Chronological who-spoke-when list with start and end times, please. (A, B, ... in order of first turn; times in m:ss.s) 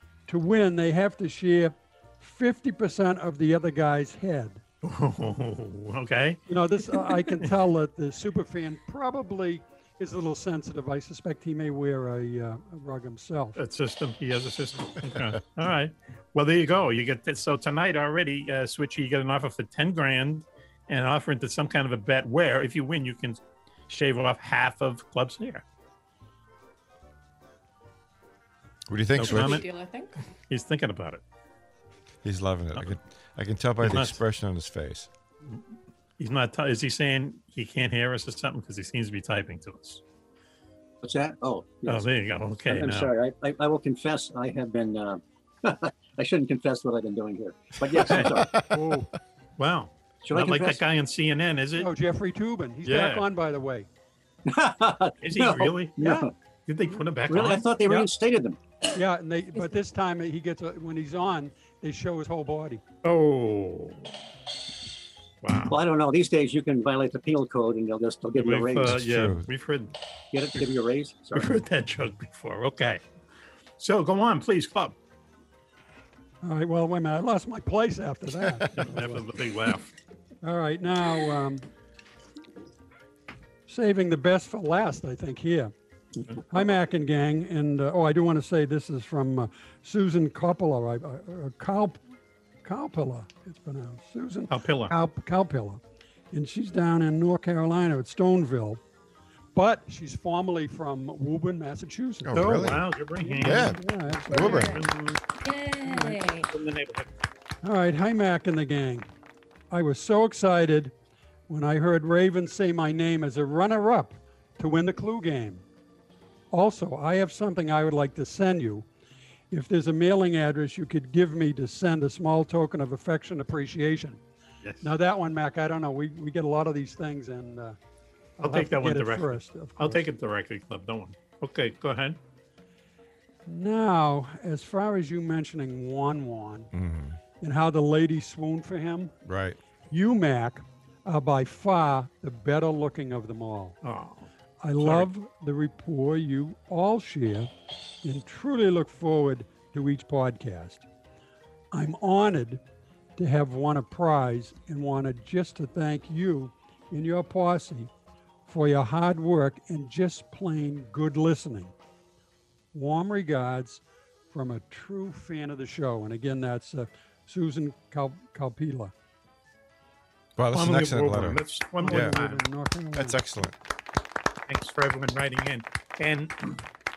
0:00.3-0:04.6 A
0:04.8-0:06.4 B
0:06.5-0:13.6 A
0:07.0-0:07.5 B
0:13.6-0:25.6 B
0:28.9-0:29.6 C
0:29.2-0:29.6 B
0:29.2-0:30.1 D
0:30.5-0:31.2 B
0:32.2-0:35.1 C
0:33.8-0:34.2 B
0:36.2-0:40.0 B
0:41.0-0:42.1 E
0:41.9-0:43.1 B
0:42.7-0:48.6 E
0:48.0-0:48.3 B
0:48.7-0:49.1 A
0:49.6-0:51.9 B
0:50.2-0:50.8 E
0:51.8-0:53.9 A
0:52.8-0:53.3 B
0:54.4-0:56.3 E
0:55.2-0:57.7 B
0:57.3-0:58.6 E
0:57.9-0:58.1 A
0:59.0-1:02.8 A
1:03.0-1:04.1 B
1:05.4-1:05.7 B
1:05.7-1:09.0 E
1:08.4-1:09.9 B
1:08.9-1:09.5 C
1:10.3-1:11.6 E
1:11.3-1:13.0 B
1:13.8-1:15.0 B
1:16.4-1:19.3 A
1:18.8-1:19.9 B
1:20.4-1:21.6 A
1:23.7-1:25.7 A
1:26.5-1:32.0 A
1:32.6-1:35.8 A
1:34.5-1:35.0 B
1:36.3-1:38.8 A
1:39.6-1:44.7 A
1:42.2-1:42.8 C
1:42.3-1:45.2 B
1:43.4-1:44.8 C
1:44.3-1:44.8 D
1:45.4-1:46.5 D
1:45.9-1:46.2 A
1:46.5-1:47.1 B
1:47.6-1:49.1 A
1:49.7-1:50.9 A
1:51.5-1:55.6 A
1:56.5-1:58.9 A
1:59.5-2:04.2 A
2:04.6-2:04.9 B
2:04.8-2:07.8 A
2:08.4-2:10.0 A
2:08.4-2:12.2 B
2:13.4-2:16.7 A
2:16.7-2:17.2 C
2:17.4-2:19.1 A
2:19.3-2:19.6 C
2:19.9-2:23.8 A
2:23.8-2:24.3 B
2:24.6-2:27.5 A
2:24.8-2:25.1 B
2:28.0-2:30.9 A
2:31.7-2:32.6 A
2:33.2-2:37.9 A
2:38.5-2:41.7 A
2:42.7-2:48.9 A
2:50.4-2:52.2 C
2:50.5-2:52.4 B
2:51.8-2:53.3 A
2:52.9-2:53.6 C
2:54.5-2:56.6 B